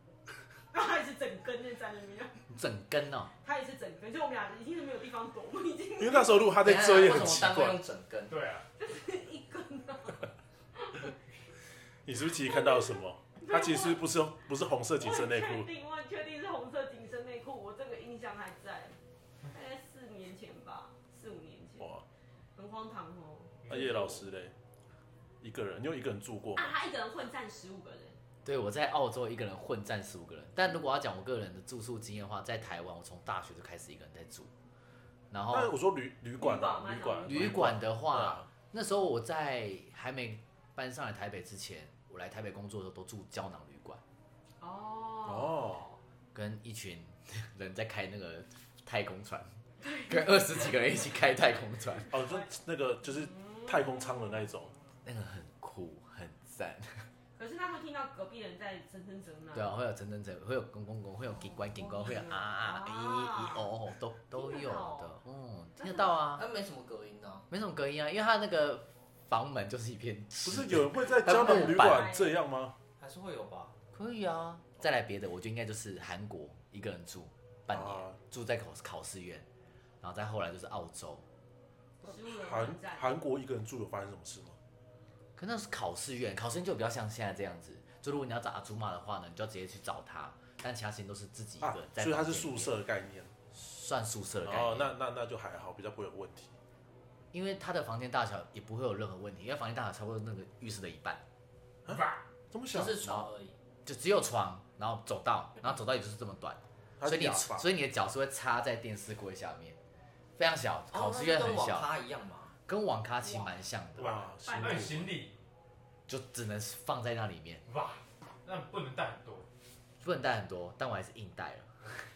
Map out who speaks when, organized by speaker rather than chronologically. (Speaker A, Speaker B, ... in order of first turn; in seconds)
Speaker A: 0.7-2.3, 3.4-6.5, 8.8-11.1, 12.4-14.0, 15.0-18.9, 19.5-21.9, 22.6-24.2, 26.6-28.2, 36.4-37.7, 44.6-46.0, 49.8-51.4, 52.0-52.5, 53.0-54.5, 57.4-59.7, 61.4-63.7, 64.3-65.1, 65.8-66.2, 71.2-72.3, 82.0-83.1, 114.4-115.0
Speaker B: 2.5-3.3, 28.4-34.5, 35.3-35.7, 37.2-44.0, 46.3-49.5, 50.1-52.1, 55.0-57.0, 59.5-66.4, 67.5-72.1, 73.9-79.5, 80.0-81.2, 85.3-92.8, 93.5-94.9, 97.3-101.2, 103.0-103.3, 103.8-109.8, 110.4-111.9, 112.7-114.2, 116.1-117.6, 120.0-121.9
Speaker C: 6.0-7.8, 12.0-15.7, 23.7-24.5, 25.4-26.7, 35.5-38.5, 45.2-45.8, 52.1-54.7, 70.4-72.8, 77.7-78.2, 82.0-84.6, 91.6-93.3, 94.4-96.5, 101.8-103.0, 107.0-107.7, 114.0-115.1
Speaker D: 6.6-8.4, 66.3-67.5, 73.0-73.7, 102.7-103.5, 110.9-112.5
Speaker E: 8.3-8.7, 23.6-23.9, 101.9-102.2, 114.5-115.3, 117.7-119.5